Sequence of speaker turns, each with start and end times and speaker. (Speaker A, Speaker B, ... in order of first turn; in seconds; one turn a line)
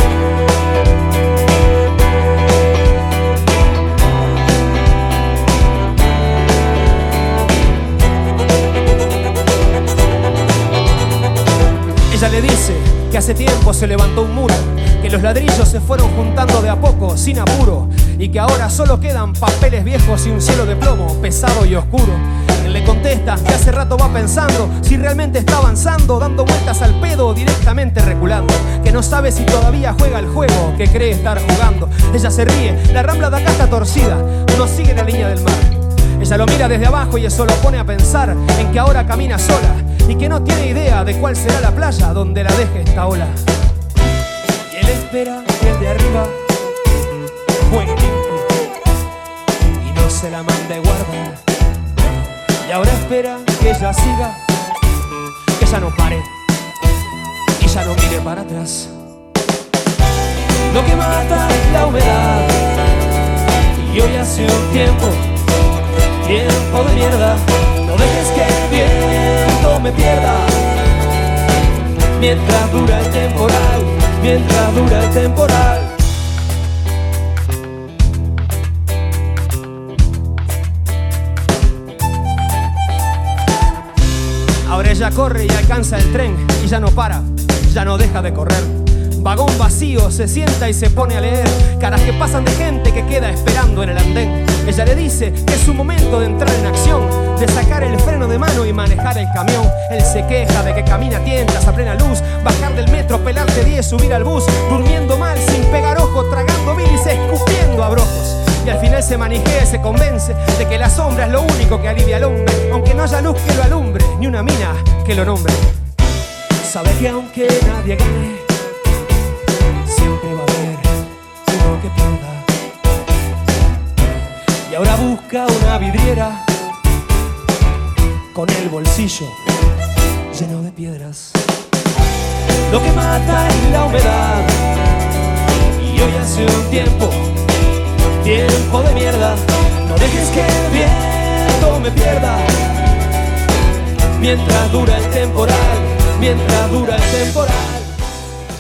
Speaker A: 12.1-43.4
Speaker A: 44.7-46.4
Speaker A: 47.6-48.5
Speaker A: 49.8-51.4
Speaker A: 52.6-54.4
Speaker A: 55.6-56.3
Speaker A: 57.6-58.9
Speaker A: 60.7-62.6
Speaker A: 63.8-65.3
Speaker A: 66.2-70.7
Speaker A: 72.2-76.0
Speaker A: 84.7-115.7
Speaker A: 116.6-118.5
Speaker A: 119.9-122.5
Speaker A: 124.7-126.5
Speaker A: 128.3-129.4
Speaker A: 130.3-131.4
Speaker A: 132.7-134.6
Speaker A: 135.8-137.3
Speaker A: 138.2-142.6
Speaker A: 144.2-147.9